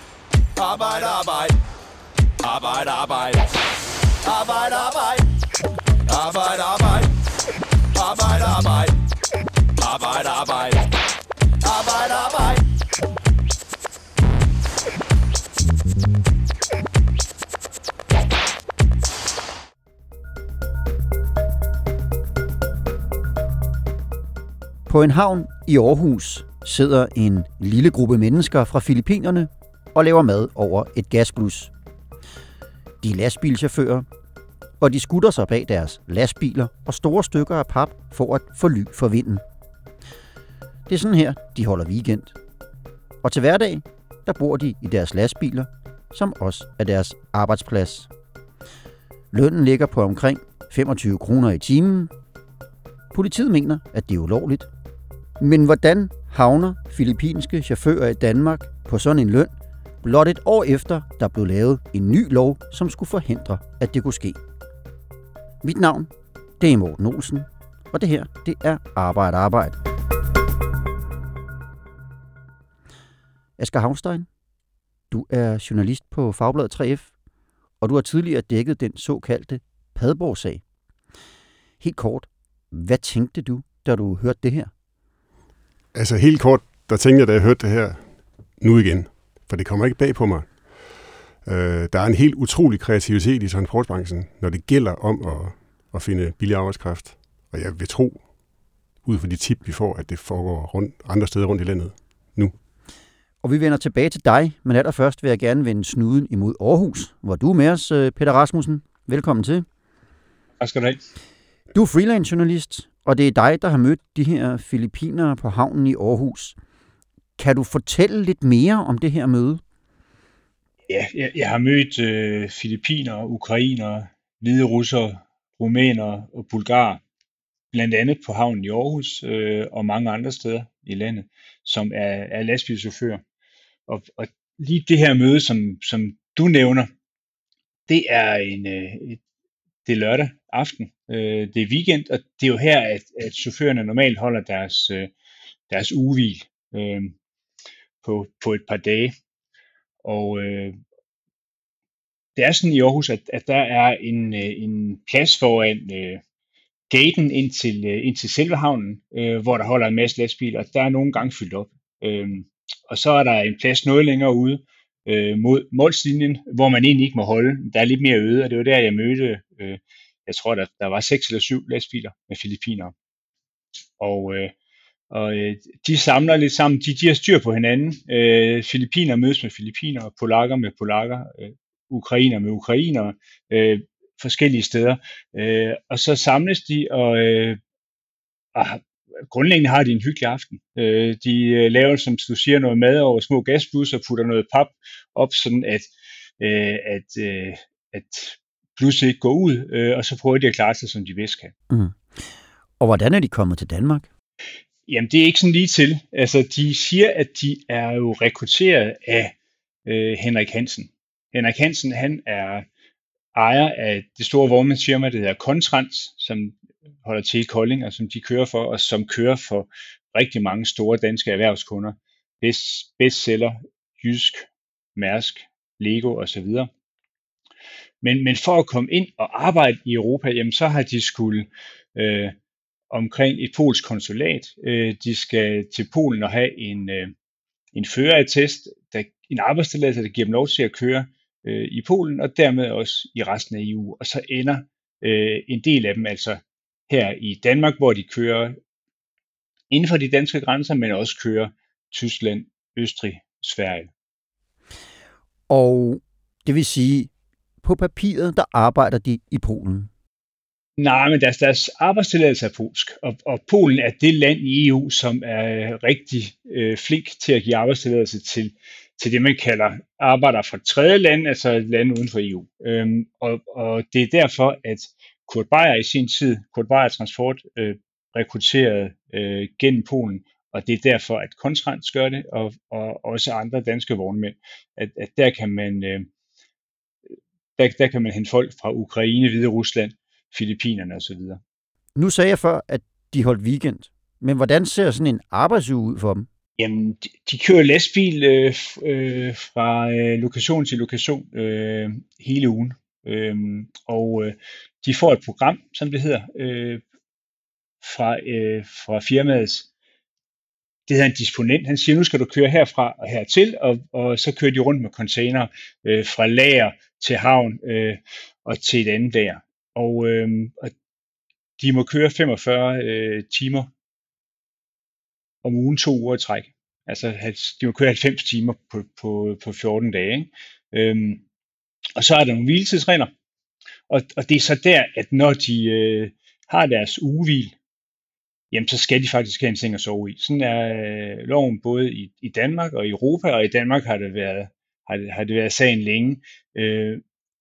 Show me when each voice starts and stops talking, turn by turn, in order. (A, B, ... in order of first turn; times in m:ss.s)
0:00.6-0:01.5 A
0:02.4-0:03.4 A
0:04.2-0:05.2 A
0:06.1-0:07.1 A
0:08.0-0:08.9 A
0:09.8-0:10.8 A
0:11.6-0:12.6 A
0:24.9-0:31.7 B
0:33.0-0:34.0 B
0:34.8-0:39.4 B
0:40.9-0:42.4 B
0:43.2-0:48.1 B
0:49.3-0:52.1 B
0:53.1-0:54.7 B
0:55.4-0:59.5 B
1:00.0-1:04.4 B
1:05.6-1:09.8 B
1:13.6-1:14.3 B
1:15.1-1:17.1 B
1:17.8-1:20.6 B
1:21.8-1:24.7 B
1:25.9-1:28.1 C
1:28.6-1:30.6 C
1:31.5-1:38.2 C
1:39.0-1:42.5 C
1:43.4-1:49.6 B
1:50.6-1:51.0 D
1:51.7-1:56.6 B
1:57.4-1:59.6 B
2:00.9-2:07.0 D
2:07.7-2:13.2 D
2:13.9-2:16.9 D
2:17.9-2:19.2 D
2:19.8-2:25.1 D
2:25.7-2:27.2 D
2:28.0-2:29.1 D
2:30.0-2:30.8 D
2:32.4-2:36.2 D
2:36.9-2:52.9 D
2:54.0-2:54.5 D
2:55.1-3:07.6 D
3:08.5-3:21.5 D
3:21.7-3:22.0 B
3:22.8-3:24.1 B
3:24.9-3:32.7 D
3:33.3-3:46.7 D
3:48.0-3:52.3 D
3:52.9-3:57.1 D
3:57.7-4:08.6 D
4:09.7-4:13.9 D
4:15.5-4:17.1 B
4:17.6-4:19.9 B
4:20.8-4:46.1 D
4:47.6-4:51.4 D
4:52.0-4:56.3 B
4:56.6-5:06.8 D
5:07.8-5:09.7 D
5:10.9-5:20.7 D
5:21.6-5:23.7 D
5:25.4-5:31.2 D
5:32.0-5:33.1 D
5:33.9-5:37.6 D
5:38.5-5:47.0 D